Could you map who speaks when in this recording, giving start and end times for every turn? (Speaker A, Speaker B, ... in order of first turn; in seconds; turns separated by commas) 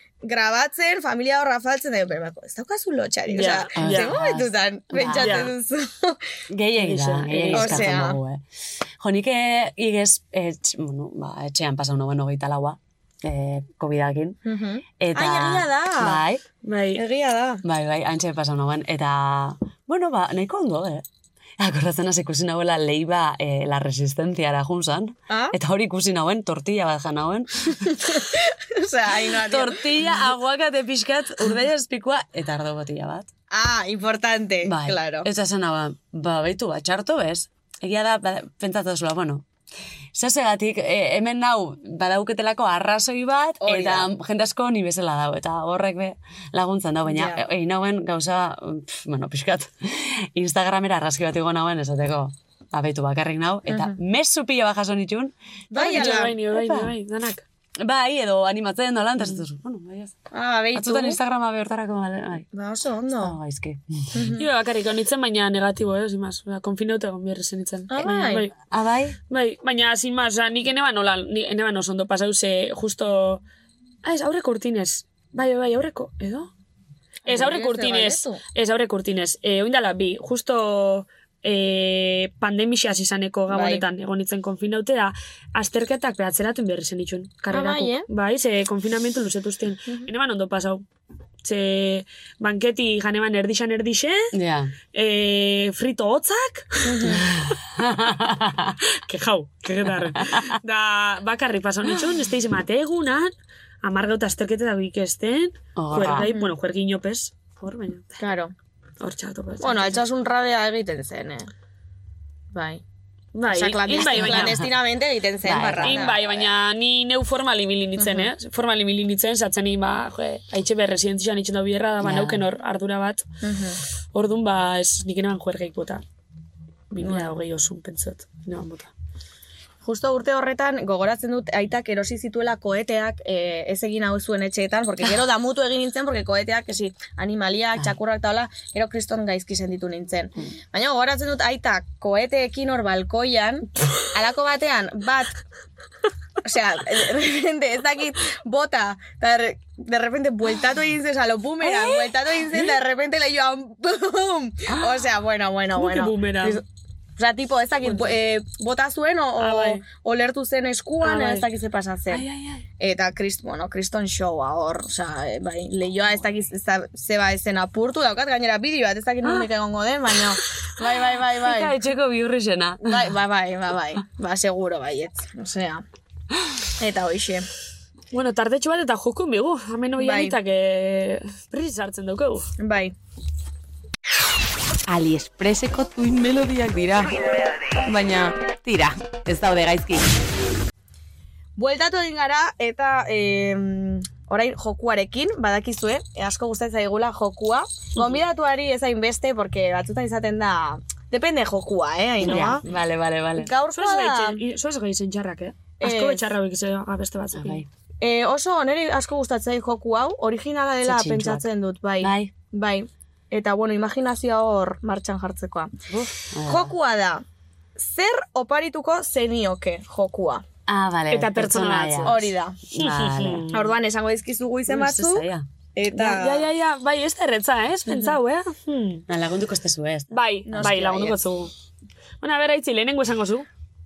Speaker A: 0.2-6.2, Speaker B: 3.3-4.2, Speaker C: 3.8-5.5, Speaker B: 5.1-5.5, Speaker C: 6.5-8.4, Speaker B: 6.8-7.9, Speaker A: 7.5-8.2, Speaker C: 9.0-14.4, Speaker A: 14.5-16.2, Speaker C: 15.0-16.4, Speaker B: 16.6-17.0, Speaker A: 17.0-17.6, Speaker C: 17.6-21.1, Speaker C: 21.6-27.9, Speaker A: 25.3-25.6, Speaker A: 27.9-30.1, Speaker C: 29.4-33.3, Speaker A: 33.5-35.3, Speaker C: 34.6-39.5, Speaker C: 40.1-57.0, Speaker A: 43.6-44.1, Speaker A: 47.1-47.4, Speaker A: 53.7-54.0, Speaker A: 55.7-56.4, Speaker B: 55.8-57.4, Speaker C: 57.8-60.1, Speaker A: 60.3-61.2, Speaker C: 60.7-62.5, Speaker A: 62.5-63.4, Speaker C: 63.2-64.3, Speaker A: 64.1-64.5, Speaker B: 64.4-68.5, Speaker A: 67.9-68.5, Speaker C: 68.0-69.2, Speaker B: 69.3-73.4, Speaker B: 74.0-76.5, Speaker A: 77.3-78.4, Speaker B: 77.3-90.8, Speaker A: 83.5-83.8, Speaker A: 87.5-88.1, Speaker B: 91.4-94.3, Speaker C: 94.3-94.7, Speaker B: 94.9-97.2, Speaker A: 96.8-97.3, Speaker C: 97.1-98.8, Speaker B: 99.1-103.3, Speaker C: 100.2-100.4, Speaker B: 103.8-108.2, Speaker C: 105.8-106.3, Speaker A: 106.1-106.5, Speaker A: 108.2-108.5, Speaker B: 109.0-110.1, Speaker A: 109.6-111.5, Speaker A: 112.5-112.8, Speaker B: 113.3-114.6, Speaker A: 113.5-116.5, Speaker C: 114.0-114.7, Speaker C: 115.4-116.2, Speaker B: 115.8-123.3, Speaker A: 118.0-118.3, Speaker C: 122.0-122.4, Speaker A: 123.4-123.8, Speaker B: 124.1-126.0, Speaker B: 126.9-128.9, Speaker A: 127.0-127.3, Speaker A: 129.8-145.3, Speaker A: 146.4-156.6, Speaker B: 155.7-156.6, Speaker A: 157.2-162.2, Speaker B: 157.8-158.1, Speaker B: 159.4-159.8, Speaker B: 161.0-161.5, Speaker C: 162.1-162.7, Speaker A: 162.8-171.7, Speaker C: 171.3-173.2, Speaker A: 172.8-175.8, Speaker A: 176.8-177.5, Speaker B: 178.1-182.5, Speaker A: 180.0-180.4, Speaker A: 182.6-182.9, Speaker D: 184.9-187.2, Speaker D: 187.8-190.1, Speaker A: 191.6-202.6, Speaker C: 202.2-203.5, Speaker B: 202.2-202.6, Speaker A: 203.4-204.4, Speaker B: 203.7-207.6, Speaker A: 205.8-206.3, Speaker C: 207.3-207.7, Speaker A: 208.0-215.7, Speaker C: 210.8-211.5, Speaker C: 212.0-212.3, Speaker C: 215.9-216.7, Speaker A: 216.4-217.2, Speaker A: 217.8-220.4, Speaker C: 220.7-223.5, Speaker B: 221.1-222.2, Speaker A: 222.0-222.6, Speaker B: 222.8-223.7, Speaker A: 223.5-226.5, Speaker C: 224.7-225.5, Speaker B: 225.9-229.0, Speaker C: 229.1-230.6, Speaker B: 230.1-231.5, Speaker A: 230.5-231.2, Speaker B: 232.2-233.5